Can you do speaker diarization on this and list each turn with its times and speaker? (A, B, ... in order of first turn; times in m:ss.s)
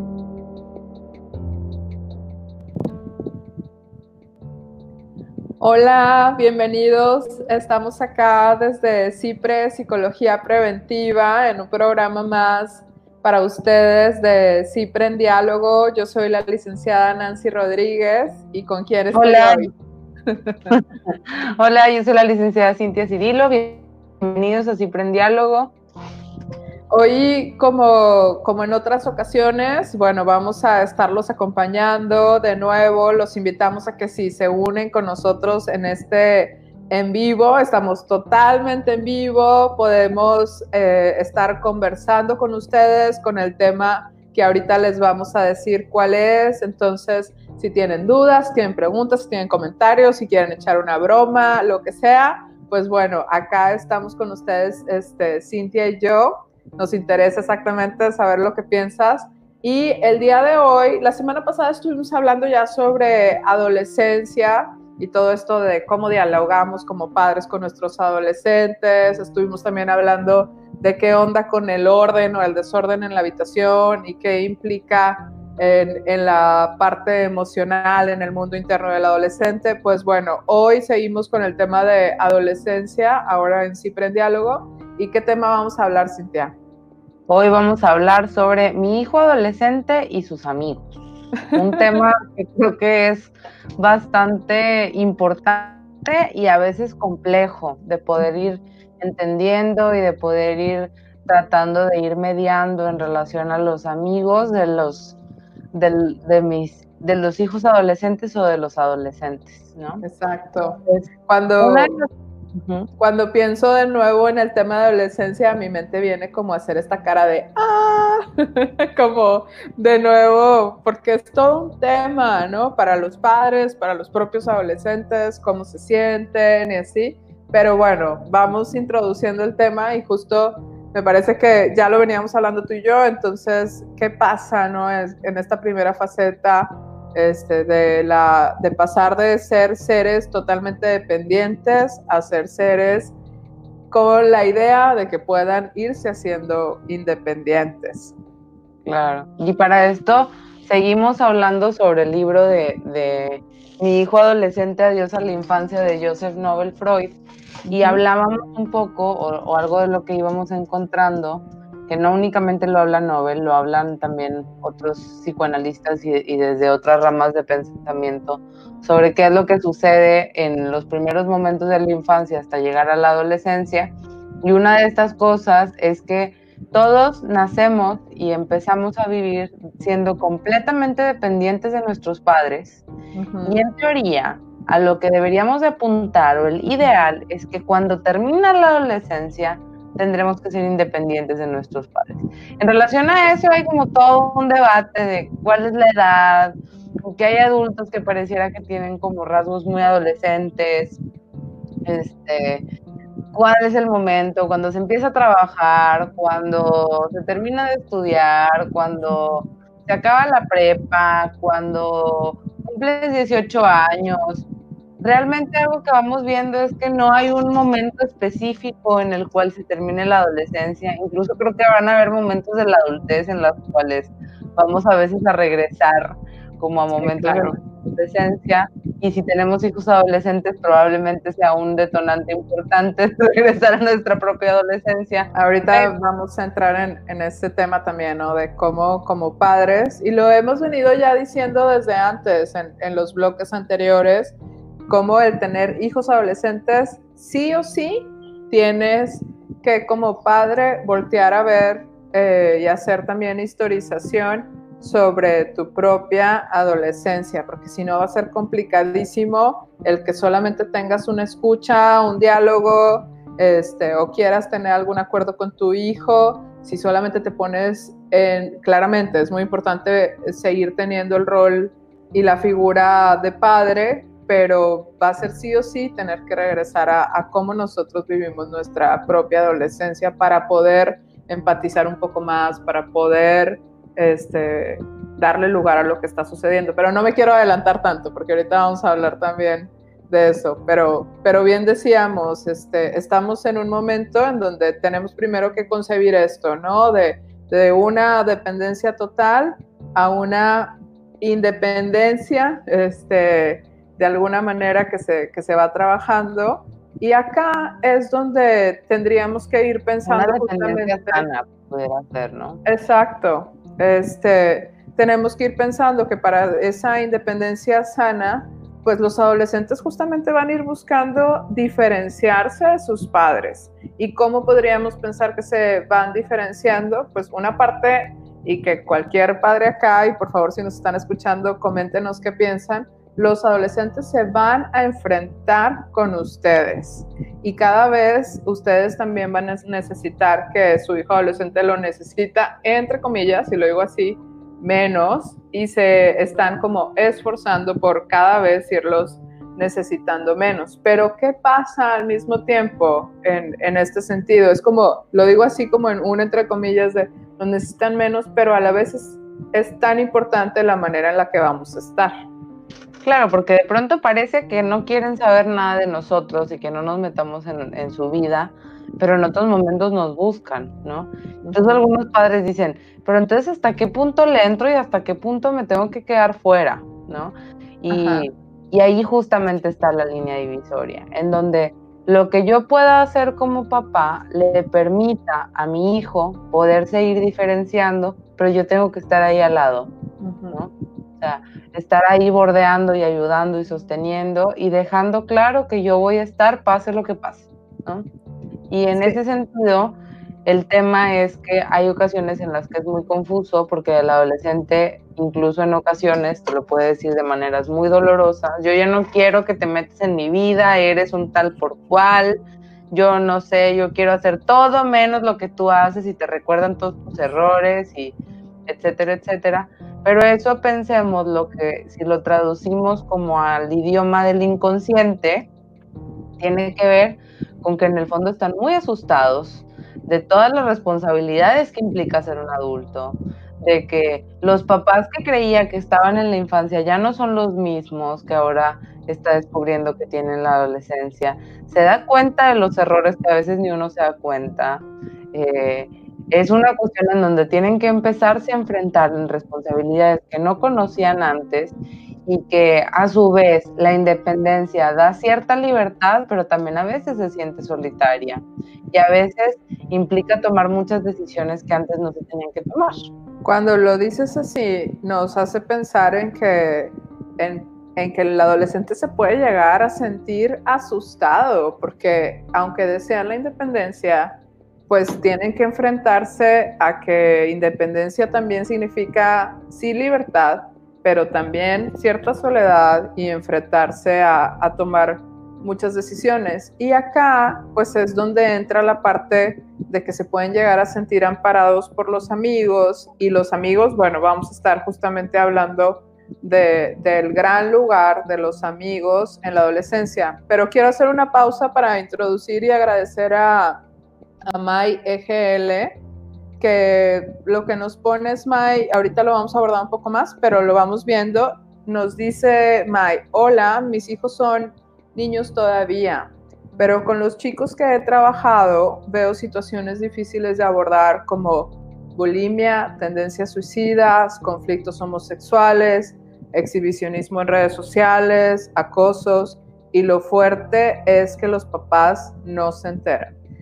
0:05.6-0:19.7 A
0:19.1-0:19.7 B
0:20.3-0:20.5 A
0:20.7-0:25.7 B
0:26.9-1:26.5 A
1:27.3-1:31.0 B
1:31.5-1:45.2 B
1:31.5-1:31.8 A
1:45.7-1:50.0 B
1:50.0-1:52.0 A
1:51.6-1:52.9 B
1:53.0-2:23.1 A
2:23.9-2:28.1 A
2:28.8-2:37.2 B
2:37.7-2:38.0 A
2:37.7-3:02.8 B
3:03.1-3:03.6 A
3:03.4-3:21.0 B
3:21.8-3:22.6 B
3:23.3-3:34.4 B
3:35.0-3:55.9 B
3:46.9-3:47.6 A
3:55.3-4:04.4 A
4:04.9-5:11.3 A
5:10.0-5:12.6 B
5:12.6-6:02.1 A
6:03.0-6:29.9 B
6:11.4-6:11.8 A
6:17.9-6:18.3 A
6:30.2-6:30.6 A
6:30.5-6:38.1 B
6:38.7-6:52.4 B
6:52.9-6:58.2 B
6:58.7-7:05.5 B
7:06.4-7:43.1 B
7:43.4-8:23.8 A
8:24.5-8:26.0 A
8:26.6-8:53.3 A